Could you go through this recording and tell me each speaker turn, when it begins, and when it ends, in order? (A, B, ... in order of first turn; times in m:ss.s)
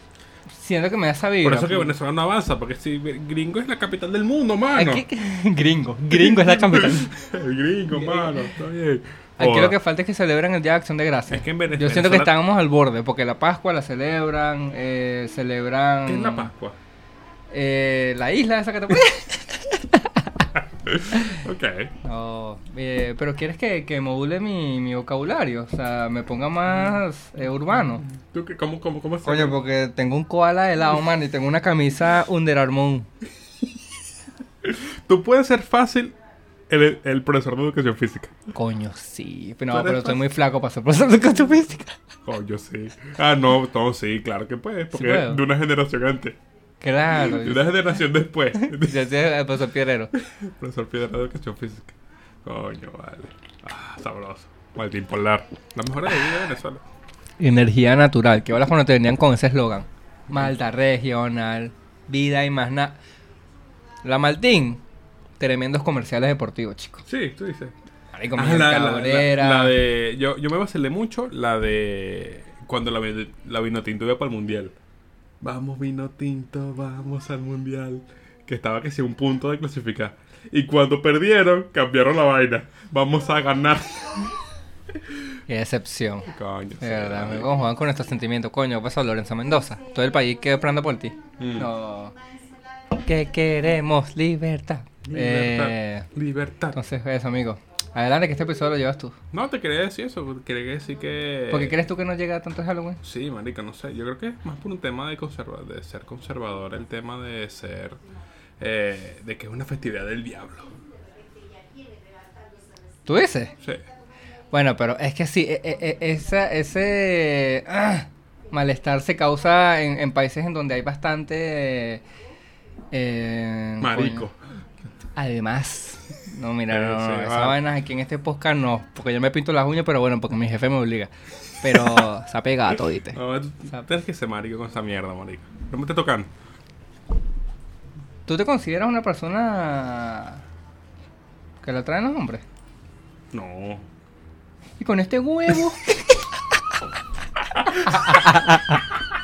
0:00.5-0:02.0 A
0:01.4-0:05.0 B
0:04.7-0:07.1 A
0:06.1-0:09.8 B
0:07.9-0:08.5 A
0:09.4-0:16.5 A
0:11.3-0:12.3 B
0:16.1-0:16.8 B
0:17.5-0:20.3 A
0:20.8-0:21.9 B
0:21.1-0:21.4 A
0:22.0-0:28.0 A
0:26.7-0:27.0 B
0:28.0-0:29.6 B
0:29.2-0:33.1 A
0:34.6-0:36.2 B
0:36.7-0:38.4 B
0:38.6-0:42.0 A
0:39.7-0:40.2 B
0:42.2-0:46.4 B
0:44.9-0:45.4 A
0:46.8-0:47.8 A
0:47.1-0:49.1 B
0:48.6-0:50.1 A
0:50.1-0:56.8 B
0:57.4-1:03.0 A
1:04.0-1:04.8 A
1:05.4-1:07.0 A
1:07.1-1:07.8 B
1:08.1-1:09.8 A
1:08.4-1:14.8 B
1:15.4-1:24.3 B
1:25.5-1:32.2 A
1:26.3-1:27.5 B
1:31.4-1:31.7 B
1:33.0-1:36.1 A
1:35.1-1:36.8 B
1:36.7-1:39.2 A
1:39.3-1:41.8 B
1:41.5-1:43.0 A
1:43.0-1:48.0 B
1:48.6-1:50.8 B
1:53.1-1:53.6 A
1:54.5-2:02.0 A
2:02.9-2:04.3 A
2:03.8-2:04.4 B
2:05.2-2:13.2 A
2:06.7-2:07.6 B
2:11.7-2:12.1 B
2:13.1-2:16.3 B
2:18.3-2:20.4 A
2:21.6-2:22.4 A
2:23.3-2:23.9 B
2:24.8-2:25.8 A
2:27.6-2:28.0 B
2:27.7-2:28.8 A